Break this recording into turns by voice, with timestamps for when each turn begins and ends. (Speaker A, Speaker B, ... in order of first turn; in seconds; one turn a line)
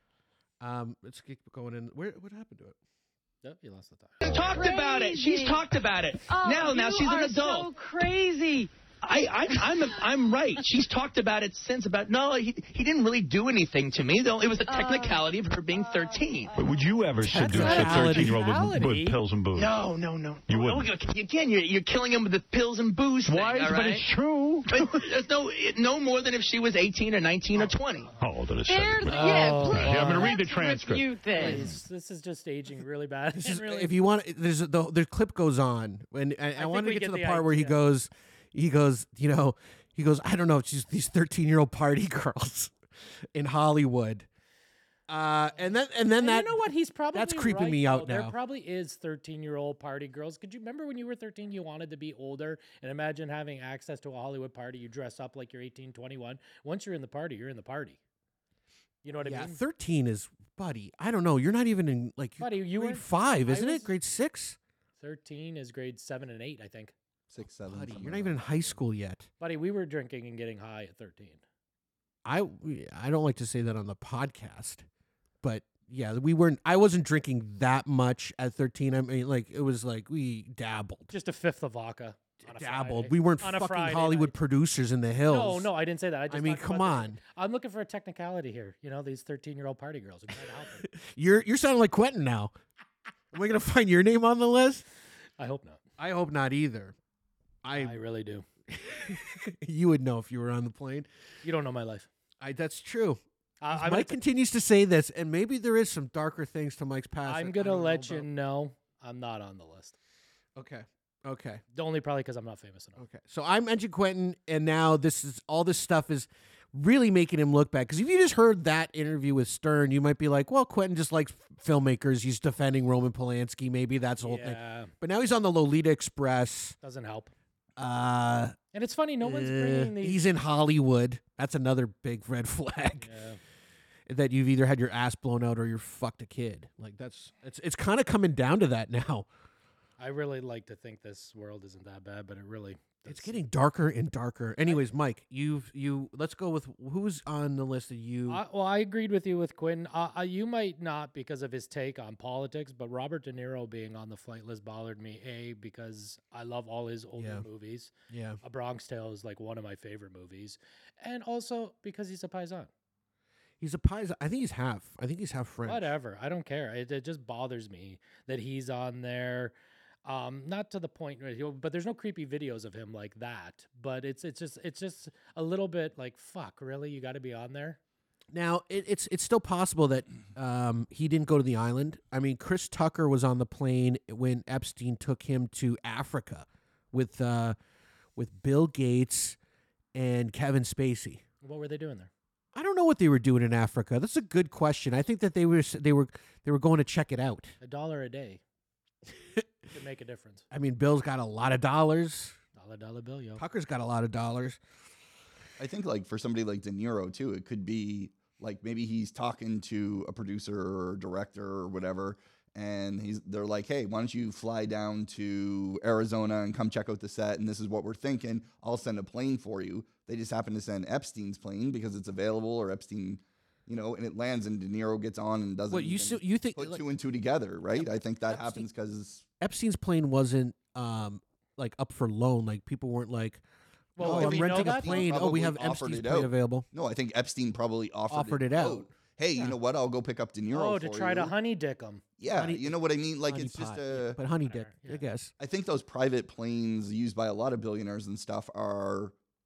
Speaker A: 0.6-2.8
Speaker B: 3.4-4.2
Speaker C: 4.2-7.7
Speaker D: 4.2-5.7
Speaker D: 6.3-8.7
Speaker C: 9.0-16.6
Speaker D: 14.7-15.2
Speaker E: 16.6-19.8
Speaker A: 17.2-18.4
Speaker B: 17.3-19.2
Speaker C: 19.6-24.1
Speaker E: 20.5-20.9
Speaker E: 23.3-25.0
Speaker C: 24.7-28.2
Speaker E: 28.2-31.2
Speaker D: 28.7-31.7
Speaker B: 29.1-30.4
Speaker B: 31.3-33.9
Speaker A: 33.3-42.7
Speaker B: 36.6-37.8
Speaker A: 43.3-44.3
Speaker A: 45.1-48.4
Speaker B: 46.1-58.0
Speaker B: 59.0-59.6
Speaker A: 59.2-64.6
Speaker B: 62.4-63.9
Speaker B: 65.0-66.9
Speaker F: 67.3-68.8
Speaker A: 67.6-69.3
Speaker B: 69.4-71.4
Speaker A: 72.2-74.9
Speaker A: 75.4-81.1
Speaker B: 81.1-84.4
Speaker A: 82.4-85.7
Speaker B: 85.3-90.9
Speaker A: 86.3-87.2
Speaker A: 90.8-92.5
Speaker A: 93.3-94.8
Speaker B: 95.4-95.8
Speaker A: 96.0-97.0
Speaker A: 97.6-98.0
Speaker B: 97.7-98.5
Speaker A: 98.7-101.1
Speaker B: 101.4-102.1
Speaker A: 102.4-108.3
Speaker B: 103.6-104.2
Speaker B: 107.2-110.0
Speaker A: 110.6-111.6
Speaker B: 111.7-113.0
Speaker A: 113.0-126.8
Speaker B: 124.2-124.9
Speaker B: 126.8-127.3
Speaker A: 127.8-128.6
Speaker B: 128.7-130.2
Speaker A: 129.2-133.1
Speaker B: 133.0-133.4
Speaker A: 134.1-139.3
Speaker B: 140.0-143.4
Speaker A: 143.1-148.4
Speaker B: 148.3-162.7
Speaker A: 157.2-157.5
Speaker A: 158.1-158.4
Speaker A: 163.6-165.9
Speaker B: 165.7-169.5
Speaker B: 170.1-177.8
Speaker A: 178.3-187.6
Speaker A: 188.2-189.4
Speaker A: 189.9-191.2
Speaker B: 191.4-192.1
Speaker A: 192.6-197.5
Speaker B: 197.6-198.4
Speaker B: 199.7-200.4
Speaker A: 200.5-202.4
Speaker B: 202.6-203.4
Speaker A: 203.4-204.6
Speaker F: 205.6-229.3
Speaker A: 225.7-226.8
Speaker A: 227.8-228.7
Speaker A: 229.4-233.4
Speaker B: 234.0-235.1
Speaker A: 234.0-236.7
Speaker F: 234.0-241.3
Speaker A: 238.1-239.6
Speaker B: 240.5-242.0
Speaker F: 242.2-244.2
Speaker A: 242.3-245.3
Speaker B: 244.4-245.1
Speaker F: 245.4-249.2